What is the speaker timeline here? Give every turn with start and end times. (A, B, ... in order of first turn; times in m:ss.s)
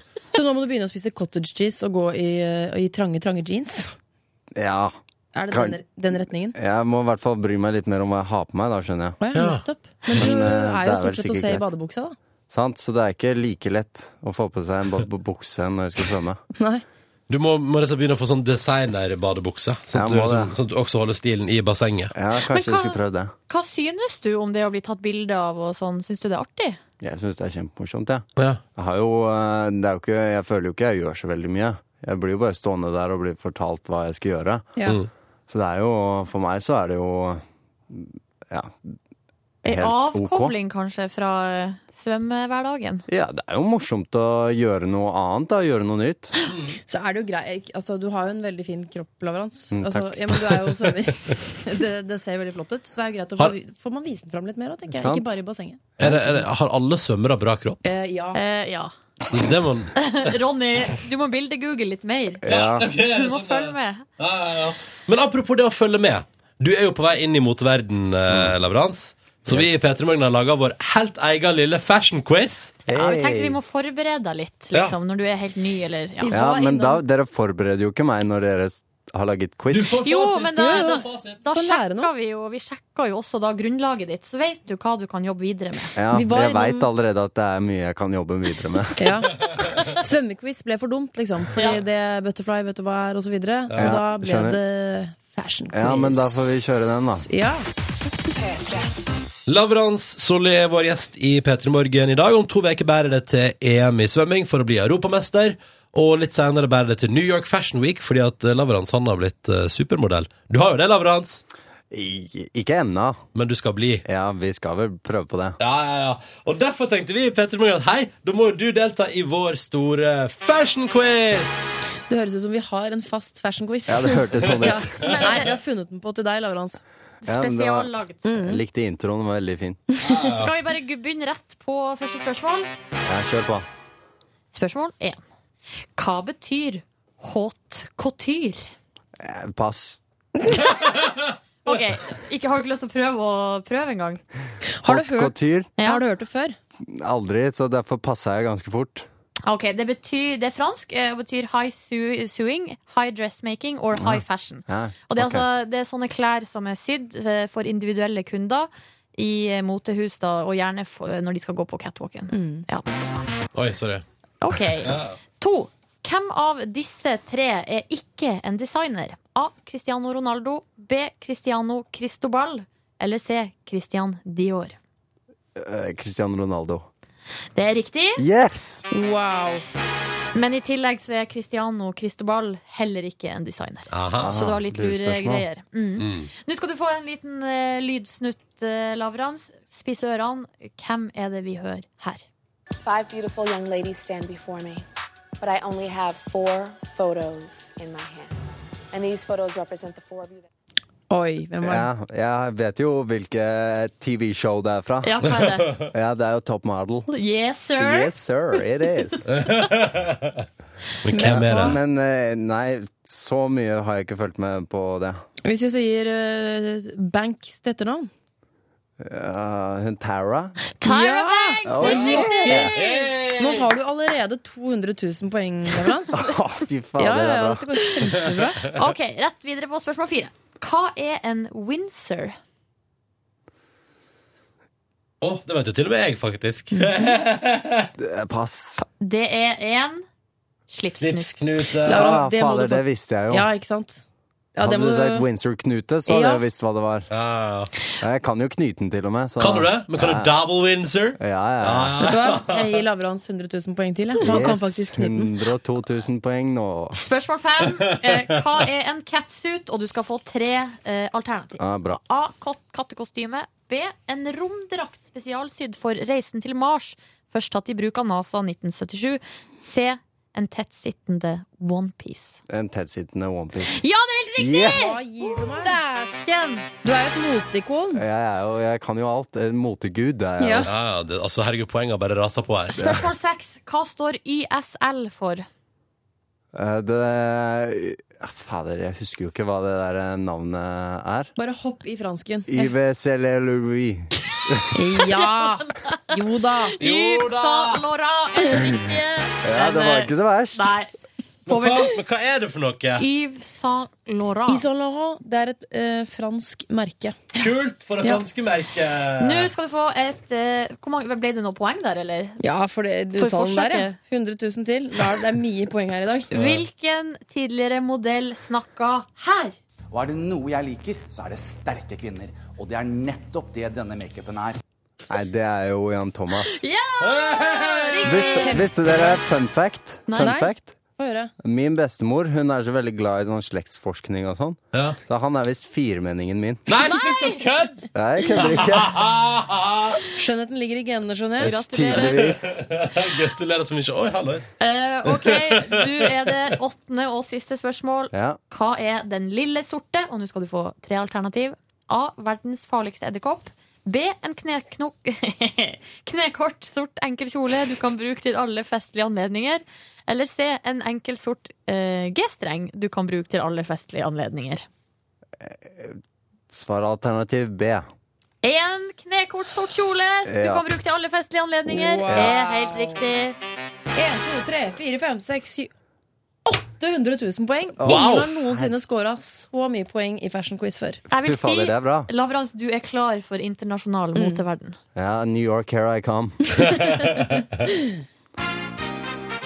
0:00.3-0:03.9 A
0:04.6-0:04.9 B
0:05.3-0:06.6 A
0:05.5-0:05.8 B
0:06.5-0:09.2 B
0:09.2-0:12.2 A
0:09.3-0:09.6 C
0:10.1-0:10.4 C
0:10.1-0:11.7 B
0:12.5-0:16.4 B
0:16.6-0:16.8 A
0:17.3-0:22.1 C
0:19.9-0:20.5 B
0:22.1-0:23.3 B
0:22.4-0:26.8 D
0:27.0-0:34.7 B
0:35.5-0:38.7 B
0:39.6-0:43.0 D
0:39.7-0:40.6 B
0:43.1-0:46.3 B
0:46.9-0:55.9 A
0:49.7-0:50.7 B
0:54.9-0:55.4 B
0:56.0-0:57.8 C
0:56.0-0:56.4 B
0:57.8-0:58.4 A
0:58.3-0:58.9 D
0:59.3-1:00.3 C
1:00.0-1:02.4 D
1:02.4-1:02.9 B
1:02.5-1:12.8 C
1:03.0-1:04.0 D
1:08.3-1:08.5 B
1:09.5-1:09.8 B
1:12.9-1:13.6 B
1:12.9-1:16.4 D
1:16.2-1:17.0 A
1:16.3-1:20.0 B
1:19.7-1:21.4 C
1:20.0-1:25.9 D
1:20.6-1:22.1 A
1:25.9-1:29.1 B
1:26.1-1:26.9 A
1:29.0-1:37.7 A
1:33.7-1:34.0 C
1:33.8-1:34.6 B
1:35.7-1:37.3 B
1:38.3-1:38.9 E
1:39.5-1:51.4 C
1:51.9-1:53.2 B
1:53.3-1:54.0 C
1:54.0-1:55.6 B
1:55.6-2:01.9 C
2:02.1-2:06.8 A
2:03.9-2:05.0 B
2:05.0-2:05.5 D
2:07.2-2:08.2 D
2:07.2-2:09.8 B
2:08.2-2:08.6 A
2:10.0-2:10.5 C
2:10.0-2:12.7 D
2:13.0-2:13.6 B
2:14.5-2:15.2 D
2:16.0-2:18.7 D
2:19.2-2:20.0 B
2:21.6-2:24.2 D
2:24.6-2:26.6 A
2:24.9-2:25.7 B
2:25.8-2:26.0 D
2:26.8-2:29.1 B
2:29.4-2:42.9 D
2:33.9-2:35.4 B
2:42.3-2:42.6 A
2:43.5-2:44.0 C
2:44.4-2:54.8 D
2:44.8-2:45.2 C
2:55.6-2:56.8 B
2:57.5-2:58.2 D
2:58.2-2:58.8 B
2:58.9-2:59.6 A
3:00.3-3:12.2 D
3:03.9-3:04.4 C
3:04.2-3:05.4 B
3:06.0-3:06.3 C
3:12.8-3:14.8 E
3:15.4-3:18.4 E
3:18.9-3:20.5 E
3:21.1-3:21.9 A
3:21.6-3:25.2 B
3:25.0-3:25.8 D
3:25.8-3:27.1 B
3:27.1-3:28.6 D
3:27.8-3:29.2 B
3:29.3-3:30.3 C
3:31.0-3:31.8 C
3:31.1-3:31.8 A
3:31.2-3:35.2 B
3:35.4-3:38.1 A
3:39.0-3:40.6 B
3:40.8-3:43.0 D
3:40.8-3:46.2 A
3:41.6-3:42.7 B
3:41.8-3:43.7 C
3:46.1-3:47.7 B
3:47.0-3:48.7 A
3:48.6-3:52.4 D
3:55.2-3:57.9 C
3:56.7-3:57.1 A
3:58.0-3:58.8 B
3:58.8-4:00.0 D
4:00.7-4:01.4 D
4:00.9-4:02.2 C
4:01.8-4:04.0 A
4:01.9-4:03.5 B
4:04.6-4:05.3 A
4:04.6-4:07.1 B
4:06.1-4:06.4 A
4:07.1-4:07.7 C
4:08.0-4:10.3 B
4:09.4-4:12.8 C
4:11.2-4:12.1 B
4:12.0-4:15.3 A
4:14.2-4:17.0 B
4:16.9-4:32.4 D
4:21.6-4:22.0 B
4:32.5-4:33.8 B
4:33.7-4:36.7 D
4:34.4-4:34.9 B
4:34.6-4:35.8 A
4:36.8-4:38.0 A
4:37.9-4:40.7 B
4:40.4-4:40.7 A
4:40.6-4:43.0 C
4:42.7-4:45.4 D
4:42.8-4:43.1 B
4:46.5-4:51.3 B
4:51.4-4:52.6 A
4:52.5-4:54.7 B
4:54.7-4:56.8 A
4:55.4-4:56.0 D
4:56.6-5:00.9 D
4:56.8-4:57.8 C
4:59.4-5:00.7 B
5:01.5-5:02.0 D
5:01.5-5:03.0 C
5:03.0-5:04.6 D
5:04.5-5:07.4 A
5:07.4-5:09.5 C
5:09.2-5:12.4 D
5:12.4-5:16.3 A
5:13.2-5:14.0 D
5:16.3-5:16.6 C
5:16.3-5:19.5 D
5:19.9-5:24.6 F
5:25.1-5:26.6 B
5:26.5-5:28.7 D
5:27.0-5:28.4 C
5:28.0-5:30.7 B
5:30.1-5:30.4 D
5:30.1-5:31.3 A
5:31.4-5:36.6 B
5:36.7-5:40.0 C
5:36.8-5:37.4 D
5:37.9-5:38.9 B
5:40.2-5:41.6 A
5:41.4-5:42.3 D
5:41.4-5:42.6 B
5:42.2-5:44.5 C
5:44.6-6:04.6 D
5:45.0-5:46.4 C
5:48.1-5:48.4 B
6:05.4-6:06.0 B
6:06.5-6:07.9 B
6:08.4-6:13.4 D
6:10.2-6:10.6 B
6:11.7-6:13.0 A
6:12.1-6:12.3 B
6:13.9-6:15.7 A
6:16.4-6:21.0 A
6:17.8-6:18.3 C
6:17.9-6:18.6 B
6:21.1-6:24.8 D
6:21.2-6:22.1 B
6:24.1-6:24.4 A
6:24.9-6:26.8 B